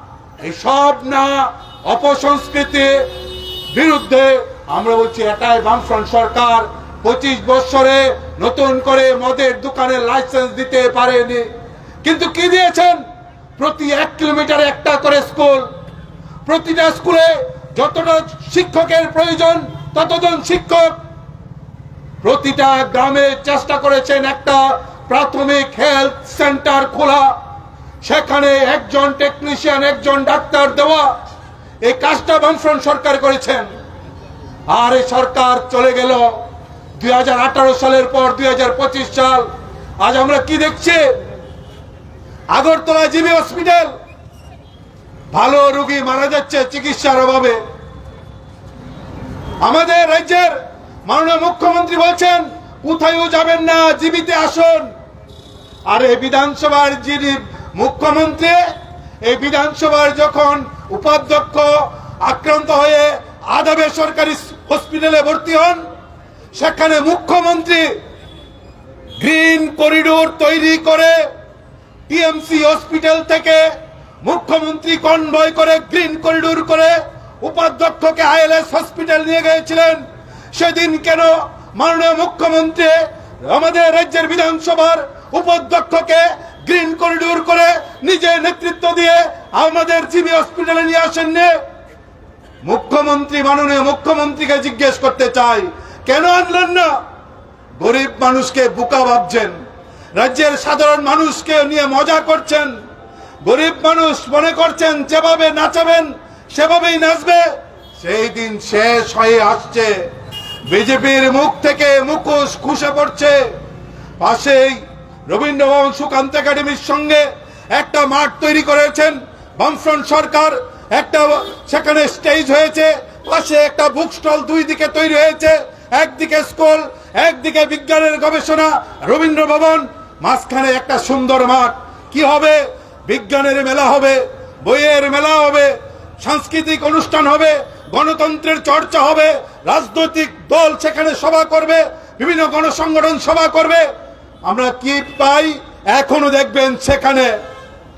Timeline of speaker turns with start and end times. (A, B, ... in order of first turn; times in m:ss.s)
0:00.4-0:03.1 A
0:03.7-0:11.5 A
0:12.0-0:13.0 A
0:13.6-0:15.7 A
0:16.5-0:20.9 A
0:22.2-0:27.3 A
0:28.0-0:31.1 A
0:31.8-0:33.7 A
0:34.7-0:36.3 A
0:37.0-0:39.5 A
0:40.0-0:41.0 A
0:42.5-0:43.9 A
0:45.3-0:47.6 A
0:49.6-0:50.6 A
0:51.1-0:54.9 A
0:55.9-0:58.6 A
0:59.2-1:05.8 A
1:06.5-1:07.9 A
1:09.2-1:11.2 A
1:12.1-1:13.6 A
1:14.2-1:20.0 A
1:20.5-1:31.5 A
1:32.6-1:36.9 A
1:37.8-1:39.6 A
1:40.2-1:42.7 A
1:43.4-1:47.4 A
1:48.0-1:49.9 A
1:50.7-1:53.4 A
1:54.2-2:23.8 A
2:24.4-2:27.3 A